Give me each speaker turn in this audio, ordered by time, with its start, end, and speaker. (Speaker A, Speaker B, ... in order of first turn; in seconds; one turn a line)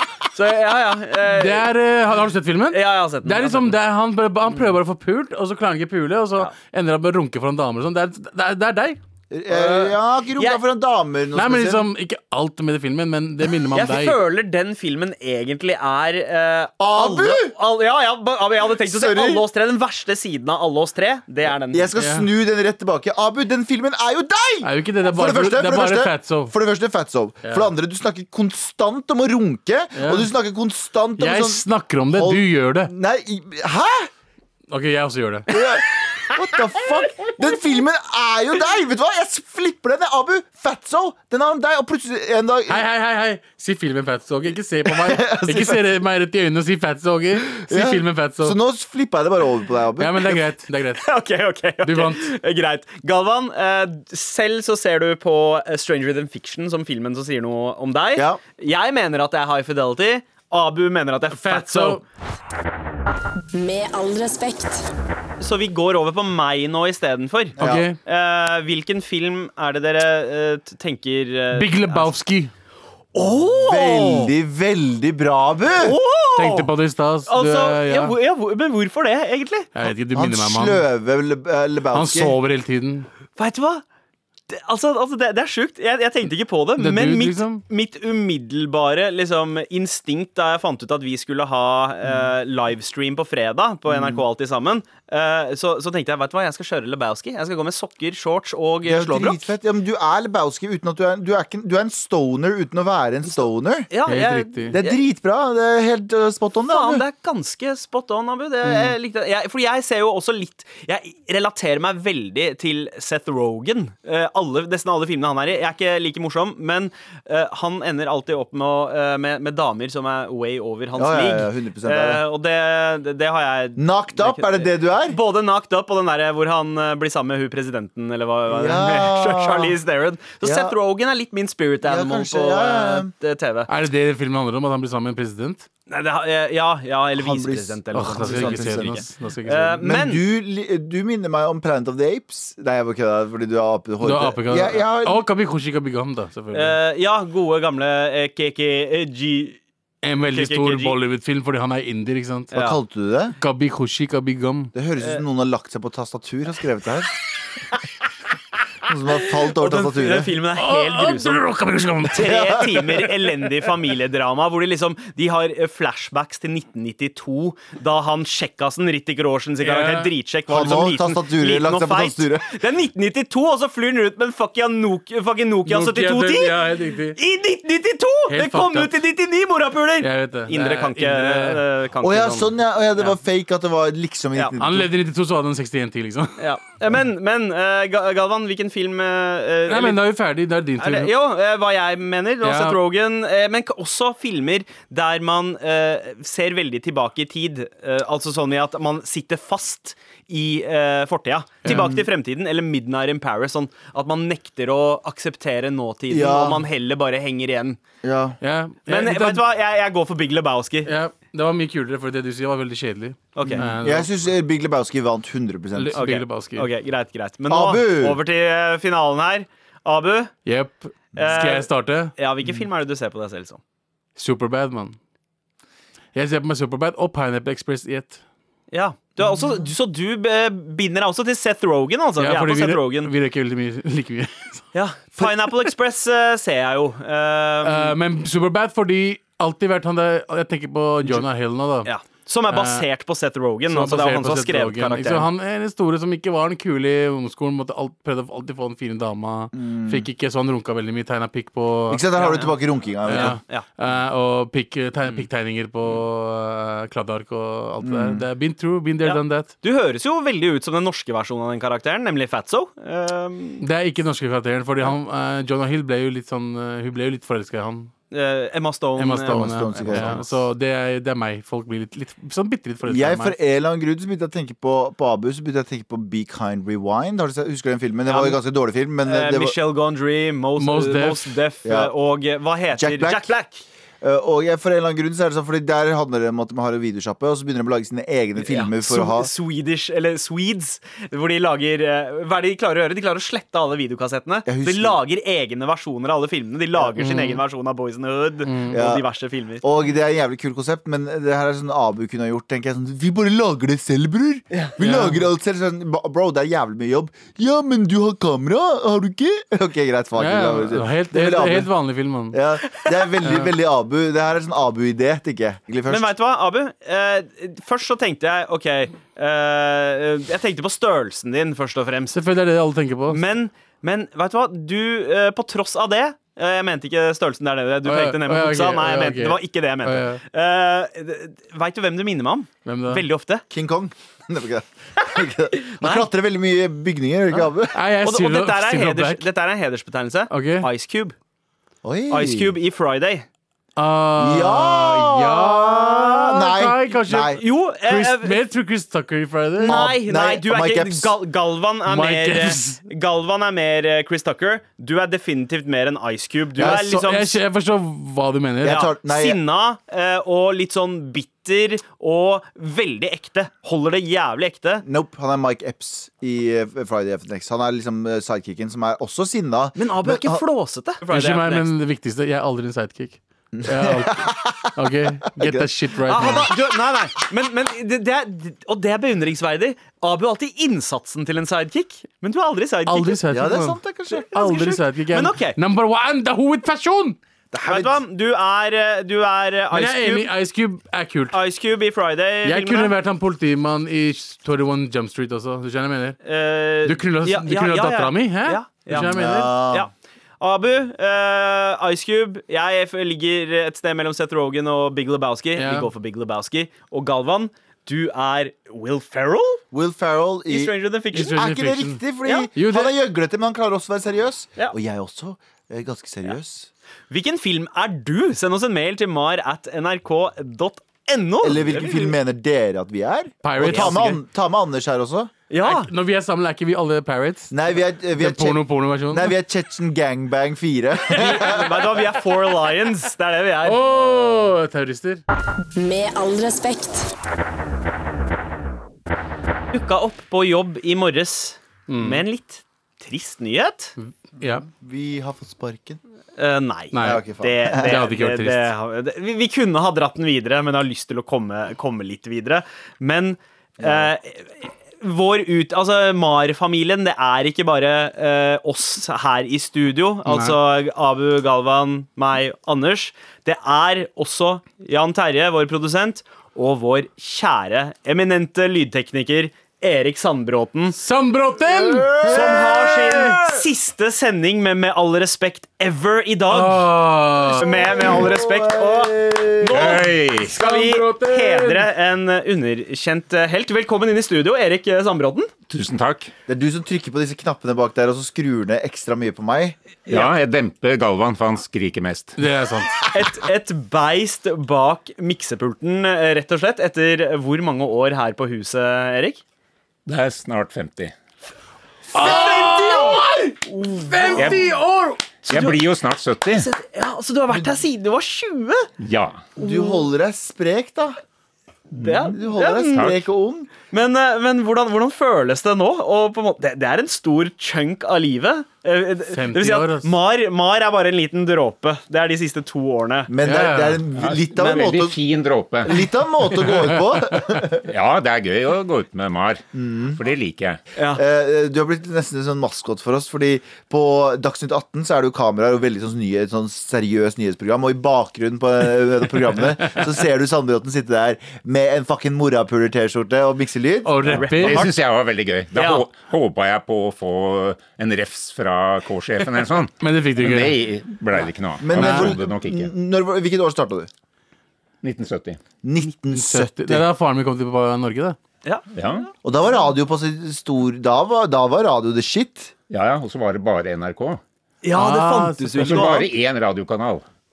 Speaker A: 0.3-1.7
Speaker B: 1.3-9.0
Speaker A: 2.7-3.7
Speaker C: 9.3-11.9
Speaker A: 9.5-10.6
Speaker B: 11.3-14.2
Speaker A: 13.7-21.9
Speaker C: 16.8-17.5
Speaker C: 18.9-19.4
Speaker C: 21.7-34.1
Speaker B: 22.0-22.3
Speaker B: 24.6-26.5
Speaker B: 27.4-27.7
Speaker B: 29.9-30.3
Speaker B: 31.2-32.9
Speaker B: 34.7-35.5
Speaker C: 35.5-42.8
Speaker B: 42.7-48.5
Speaker C: 44.9-45.8
Speaker C: 47.5-50.4
Speaker B: 50.0-51.0
Speaker A: 51.0-62.0
Speaker B: 51.8-52.3
Speaker C: 58.1-58.4
Speaker B: 61.3-62.0
Speaker D: 63.5-64.9
Speaker A: 65.4-72.1
Speaker C: 67.6-67.9
Speaker B: 67.6-68.0
Speaker B: 71.5-72.5
Speaker A: 73.1-74.3
Speaker C: 73.6-76.0
Speaker A: 75.8-76.7
Speaker B: 76.3-78.1
Speaker A: 77.3-79.7
Speaker B: 79.7-80.8
Speaker C: 80.1-82.4
Speaker B: 81.9-83.1
Speaker A: 83.4-83.8
Speaker A: 84.5-99.5
Speaker B: 86.8-87.6
Speaker C: 93.9-94.2
Speaker C: 98.8-103.9
Speaker A: 103.9-105.0
Speaker B: 104.1-104.8
Speaker C: 104.7-107.0
Speaker A: 106.7-133.7
Speaker C: 108.6-109.0
Speaker C: 120.9-122.2
Speaker C: 123.8-125.2
Speaker C: 128.5-129.8
Speaker C: 130.4-130.7
Speaker C: 131.8-133.1
Speaker B: 133.7-135.7
Speaker A: 135.9-140.2
Speaker C: 137.2-139.1
Speaker B: 137.9-139.8
Speaker C: 139.8-145.3
Speaker B: 144.0-146.8
Speaker A: 146.5-149.6
Speaker B: 150.0-152.5
Speaker A: 150.3-150.9
Speaker A: 152.5-152.8
Speaker C: 152.5-153.3
Speaker B: 153.4-154.7
Speaker C: 154.7-157.1
Speaker C: 158.9-160.3
Speaker A: 159.4-161.4
Speaker B: 160.6-162.5
Speaker A: 162.1-183.2
Speaker C: 162.2-162.7
Speaker B: 169.6-170.1
Speaker C: 170.5-172.5
Speaker B: 175.7-177.2
Speaker B: 178.3-179.0
Speaker B: 180.0-181.6
Speaker C: 182.0-184.9
Speaker B: 184.6-186.4
Speaker A: 186.4-190.0
Speaker B: 189.7-191.1
Speaker A: 190.8-207.8
Speaker B: 192.4-192.8
Speaker C: 201.7-202.0
Speaker C: 206.1-206.6
Speaker C: 208.0-208.4
Speaker B: 208.4-209.4
Speaker A: 208.9-210.9
Speaker B: 210.8-214.1
Speaker A: 213.3-213.7
Speaker C: 213.4-216.0
Speaker B: 215.8-216.7
Speaker A: 215.9-220.3
Speaker C: 217.5-218.2
Speaker B: 220.4-222.1
Speaker A: 221.1-223.6
Speaker B: 224.2-224.9
Speaker B: 226.1-228.2
Speaker A: 228.7-233.1
Speaker B: 232.2-234.6
Speaker A: 234.7-237.9
Speaker B: 235.2-235.6
Speaker B: 237.6-241.9
Speaker A: 241.8-245.3
Speaker B: 242.5-242.8
Speaker B: 243.7-252.5
Speaker C: 249.5-250.1
Speaker C: 251.9-253.4
Speaker B: 253.1-259.5
Speaker A: 253.1-253.6
Speaker C: 257.8-258.2
Speaker A: 259.0-263.6
Speaker B: 263.6-267.9
Speaker A: 268.1-270.3
Speaker B: 269.0-273.4
Speaker C: 269.2-270.4
Speaker C: 272.9-279.5
Speaker A: 278.1-278.4
Speaker A: 279.0-283.6
Speaker B: 280.6-281.3
Speaker C: 281.6-281.9
Speaker C: 282.7-283.3
Speaker C: 284.0-289.3
Speaker A: 288.4-299.6
Speaker C: 294.4-295.0
Speaker B: 297.0-297.4
Speaker B: 298.4-298.8
Speaker C: 298.7-299.0
Speaker C: 299.6-311.7
Speaker B: 304.8-305.2
Speaker B: 310.2-312.4
Speaker C: 312.3-316.1
Speaker B: 313.2-313.5
Speaker A: 315.9-322.2
Speaker B: 322.1-323.2
Speaker A: 323.1-333.4
Speaker B: 327.8-330.2
Speaker B: 332.6-333.0
Speaker C: 333.5-337.8
Speaker B: 337.7-339.2
Speaker A: 338.0-341.1
Speaker B: 340.3-340.7
Speaker C: 341.8-342.5
Speaker A: 342.1-343.2
Speaker B: 343.8-349.8
Speaker C: 344.2-347.4
Speaker A: 347.3-348.4
Speaker A: 349.6-357.4
Speaker C: 349.6-351.1
Speaker B: 351.9-352.8
Speaker C: 356.6-356.9
Speaker B: 356.6-358.8
Speaker C: 358.6-359.4
Speaker A: 358.6-364.8
Speaker C: 364.8-370.4
Speaker A: 369.8-371.7
Speaker B: 371.1-376.5
Speaker C: 373.5-376.6
Speaker A: 376.1-383.2
Speaker B: 382.9-387.2
Speaker C: 383.3-384.3
Speaker A: 384.3-385.6
Speaker C: 387.5-388.0
Speaker A: 387.7-390.3
Speaker B: 389.7-391.4
Speaker A: 391.3-392.9
Speaker B: 392.4-396.2
Speaker A: 396.2-409.6
Speaker B: 396.8-399.5
Speaker C: 398.9-399.9
Speaker B: 405.6-405.9
Speaker C: 409.7-416.7
Speaker A: 410.5-411.4
Speaker B: 411.1-412.0
Speaker A: 412.2-412.5
Speaker B: 412.5-412.9
Speaker A: 417.1-422.1
Speaker C: 421.4-425.3
Speaker B: 423.4-424.2
Speaker A: 423.6-423.9
Speaker A: 425.5-425.9
Speaker B: 425.6-427.5
Speaker C: 427.5-432.0
Speaker B: 428.1-429.3
Speaker A: 431.1-433.8
Speaker B: 433.6-435.2
Speaker D: 435.8-437.1
Speaker A: 439.7-443.9
Speaker B: 441.9-442.2
Speaker B: 444.0-444.6
Speaker C: 444.4-446.0
Speaker A: 446.4-471.0
Speaker B: 446.9-448.7
Speaker C: 447.0-448.0
Speaker C: 453.8-454.1
Speaker B: 460.3-460.6
Speaker B: 470.9-472.3
Speaker C: 471.7-473.5
Speaker A: 472.2-476.9
Speaker B: 476.5-477.6
Speaker A: 477.6-485.5
Speaker C: 477.6-479.7
Speaker E: 479.7-480.5
Speaker B: 480.4-481.9
Speaker E: 485.7-486.3
Speaker C: 486.5-489.8
Speaker A: 490.1-490.3
Speaker E: 490.1-492.4
Speaker B: 492.4-492.9
Speaker A: 493.1-499.4
Speaker E: 500.1-501.1
Speaker B: 502.1-505.2
Speaker A: 502.1-503.3
Speaker A: 504.0-504.5
Speaker E: 504.4-504.8
Speaker A: 505.4-505.9
Speaker E: 505.5-506.7
Speaker A: 506.5-508.9
Speaker E: 509.0-509.5
Speaker C: 509.6-511.2
Speaker A: 509.6-510.1
Speaker E: 511.9-512.3
Speaker A: 511.9-513.2
Speaker C: 512.3-513.7
Speaker A: 513.9-523.3
Speaker B: 519.3-520.1
Speaker C: 523.3-525.1
Speaker B: 523.4-524.0
Speaker E: 524.1-526.0
Speaker A: 524.5-524.9
Speaker C: 525.8-527.9
Speaker B: 526.6-527.6
Speaker E: 527.8-530.8
Speaker C: 529.7-530.2
Speaker A: 531.0-531.2
Speaker C: 531.1-544.5
Speaker B: 544.0-544.9
Speaker A: 544.3-544.9
Speaker E: 544.3-552.9
Speaker A: 545.7-546.1
Speaker B: 550.0-550.8
Speaker C: 551.8-554.1
Speaker B: 551.9-552.4
Speaker E: 555.0-555.6
Speaker C: 555.8-557.0
Speaker B: 556.3-558.4
Speaker E: 558.9-559.3
Speaker C: 559.4-562.7
Speaker E: 562.9-564.4
Speaker A: 564.8-566.3
Speaker B: 564.9-566.0
Speaker E: 565.8-567.2